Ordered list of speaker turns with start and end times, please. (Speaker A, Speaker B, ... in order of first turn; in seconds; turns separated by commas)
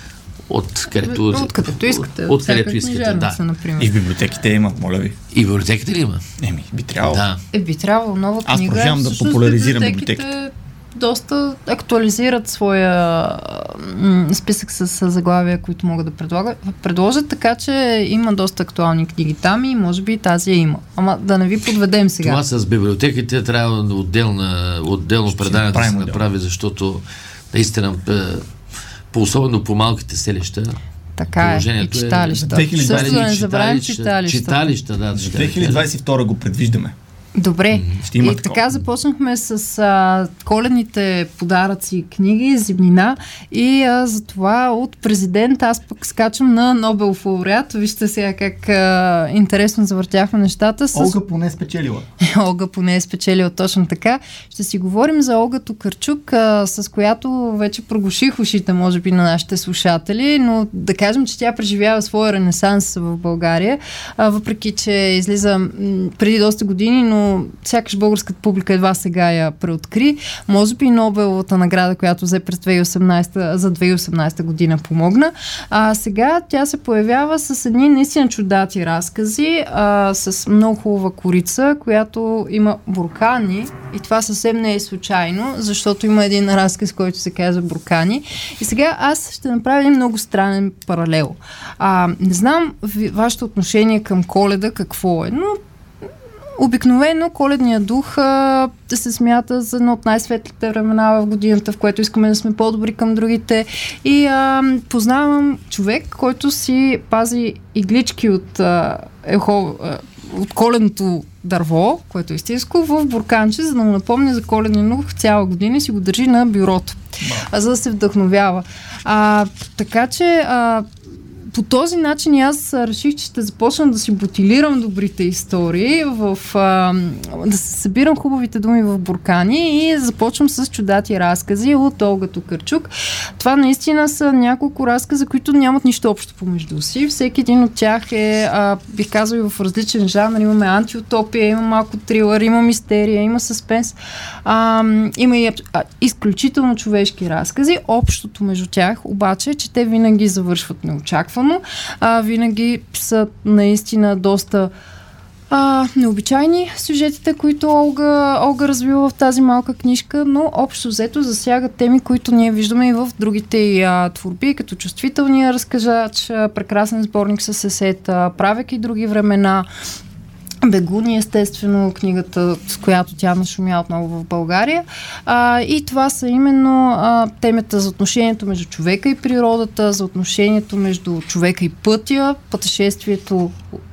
Speaker A: 0.5-3.4, Speaker B: 1.0-4.0, Speaker C: 3.8-5.2, Speaker A: 5.3-6.2, Speaker C: 6.4-7.2, Speaker A: 7.0-7.4, Speaker B: 7.5-22.4, Speaker C: 8.4-10.3, Speaker A: 22.2-28.4, Speaker C: 25.3-26.2, Speaker A: 29.1-30.8, Speaker B: 31.2-34.8, Speaker A: 31.4-35.9, Speaker C: 32.5-33.4, Speaker C: 35.1-36.9, Speaker B: 37.4-51.2, Speaker A: 37.7-38.0, Speaker C: 38.1-38.7, Speaker C: 50.9-52.1, Speaker B: 52.2-95.6, Speaker B: 96.6-120.9, Speaker C: 117.2-117.5, Speaker B: 121.5-154.7, Speaker B: 155.5-169.7, Speaker B: 170.6-183.6